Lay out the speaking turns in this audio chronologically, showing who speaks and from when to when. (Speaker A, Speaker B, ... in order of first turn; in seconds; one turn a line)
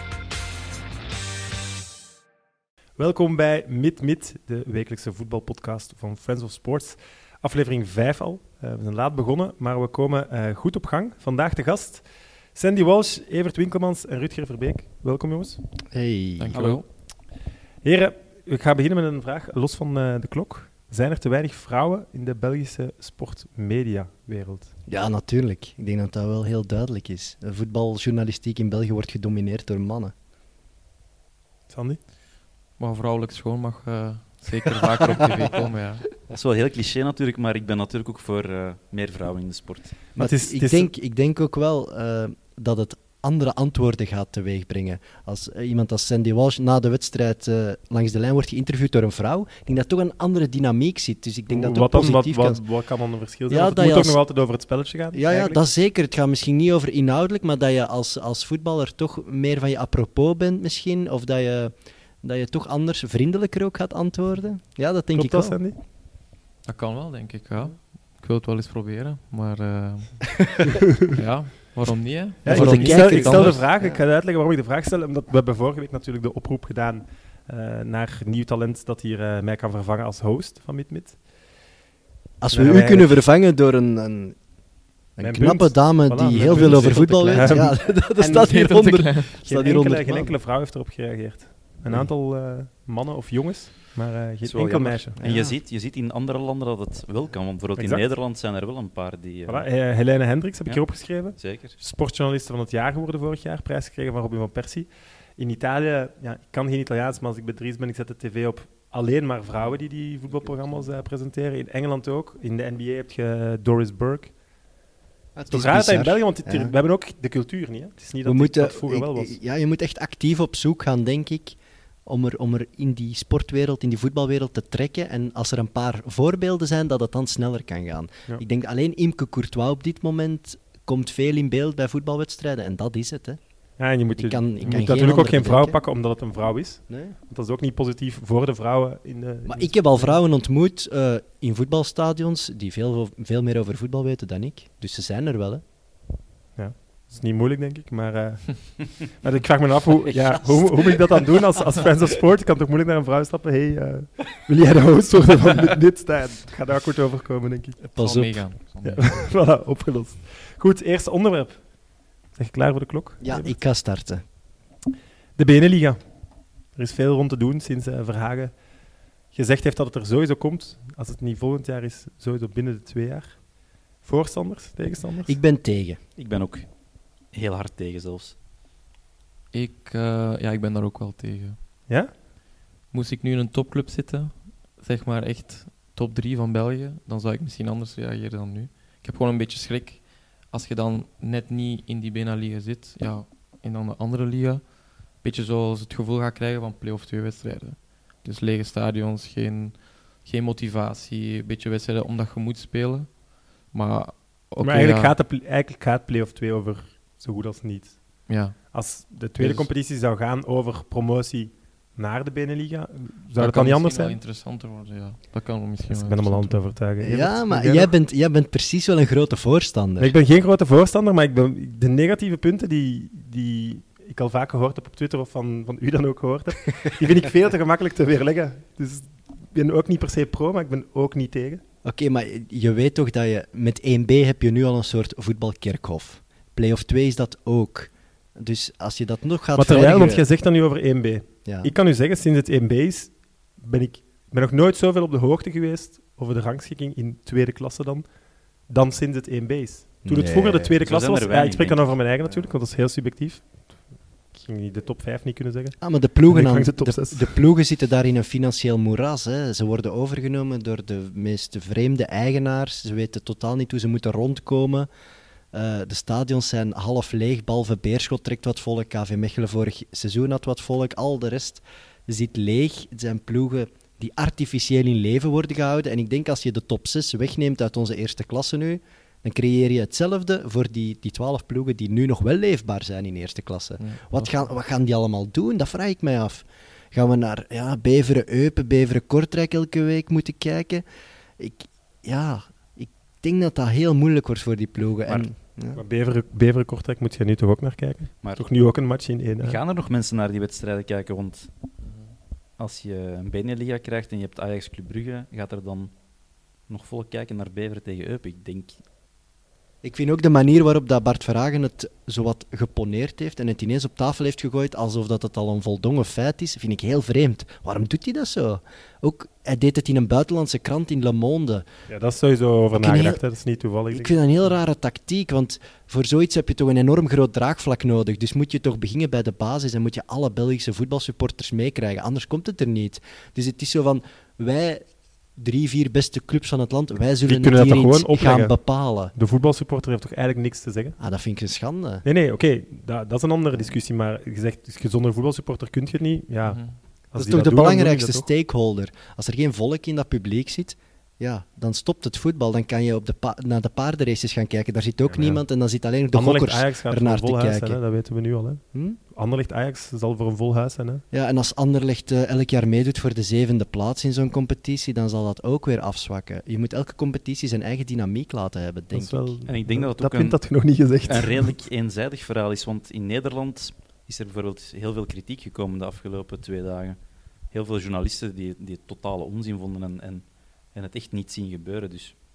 Speaker A: 3.0-12.0
Speaker A: 12.5-15.6
Speaker B: 15.9-16.6
Speaker C: 16.4-16.9
Speaker A: 16.5-16.8
Speaker A: 17.8-24.7
Speaker B: 24.9-30.1
Speaker A: 31.7-32.0
Speaker C: 32.8-36.0
Speaker D: 36.3-40.0
Speaker B: 40.2-52.6
Speaker A: 40.2-40.9
Speaker A: 51.5-55.6
Speaker B: 53.5-54.2
Speaker B: 55.1-65.6
Speaker A: 65.1-65.8
Speaker C: 66.7-70.2
Speaker B: 70.4-70.7
Speaker C: 71.1-73.6
Speaker A: 72.4-81.2
Speaker B: 72.5-74.0
Speaker B: 82.4-84.4
Speaker A: 82.5-83.2
Speaker B: 85.2-90.4
Speaker A: 85.2-88.6
Speaker C: 88.3-89.3
Speaker A: 89.5-95.2
Speaker D: 94.4-99.7
Speaker B: 95.2-95.6
Speaker A: 97.8-98.0
Speaker A: 99.5-114.3
Speaker D: 101.3-101.8
Speaker B: 115.4-116.7
Speaker A: 115.5-119.3
Speaker B: 118.2-133.4
Speaker A: 133.8-140.2
Speaker B: 134.2-135.8
Speaker B: 136.9-137.2
Speaker B: 139.5-145.6
Speaker A: 146.6-157.8
Speaker B: 150.2-151.3
Speaker B: 157.8-158.4
Speaker C: 157.9-159.2
Speaker A: 158.9-161.6
Speaker A: 162.4-163.6
Speaker B: 163.2-164.2
Speaker A: 165.4-166.0
Speaker A: 166.8-168.5
Speaker A: 169.3-173.4
Speaker A: 174.0-175.4
Speaker B: 175.3-176.0
Speaker D: 176.2-176.7
Speaker D: 177.3-178.3
Speaker C: 179.5-181.6
Speaker C: 182.9-205.2
Speaker A: 204.6-214.2
Speaker C: 208.3-208.6
Speaker B: 209.4-209.7
Speaker C: 213.4-216.7
Speaker A: 215.9-217.9
Speaker B: 217.0-220.1
Speaker A: 220.0-231.6
Speaker B: 231.8-240.2
Speaker A: 239.6-248.1
Speaker B: 241.4-241.7
Speaker A: 248.7-253.7
Speaker B: 250.0-250.7
Speaker D: 250.8-251.9
Speaker A: 254.3-255.8
Speaker B: 255.8-264.9
Speaker A: 256.3-257.3
Speaker B: 265.5-290.8
Speaker C: 283.8-284.3
Speaker B: 291.4-295.8
Speaker A: 295.8-299.6
Speaker D: 299.4-301.5
Speaker D: 302.6-305.9
Speaker D: 306.7-308.8
Speaker B: 309.8-321.7
Speaker A: 321.9-324.1
Speaker B: 322.8-323.2
Speaker B: 323.9-339.1
Speaker A: 337.3-338.5
Speaker A: 339.1-341.0
Speaker B: 341.0-342.1
Speaker A: 342.1-348.3
Speaker C: 346.5-346.8
Speaker B: 347.2-357.8
Speaker A: 355.1-355.4
Speaker A: 356.1-358.6
Speaker B: 358.7-359.0
Speaker A: 359.1-361.0
Speaker B: 361.1-369.4
Speaker A: 368.9-371.6
Speaker D: 369.5-370.4
Speaker D: 371.1-377.0
Speaker D: 377.5-382.1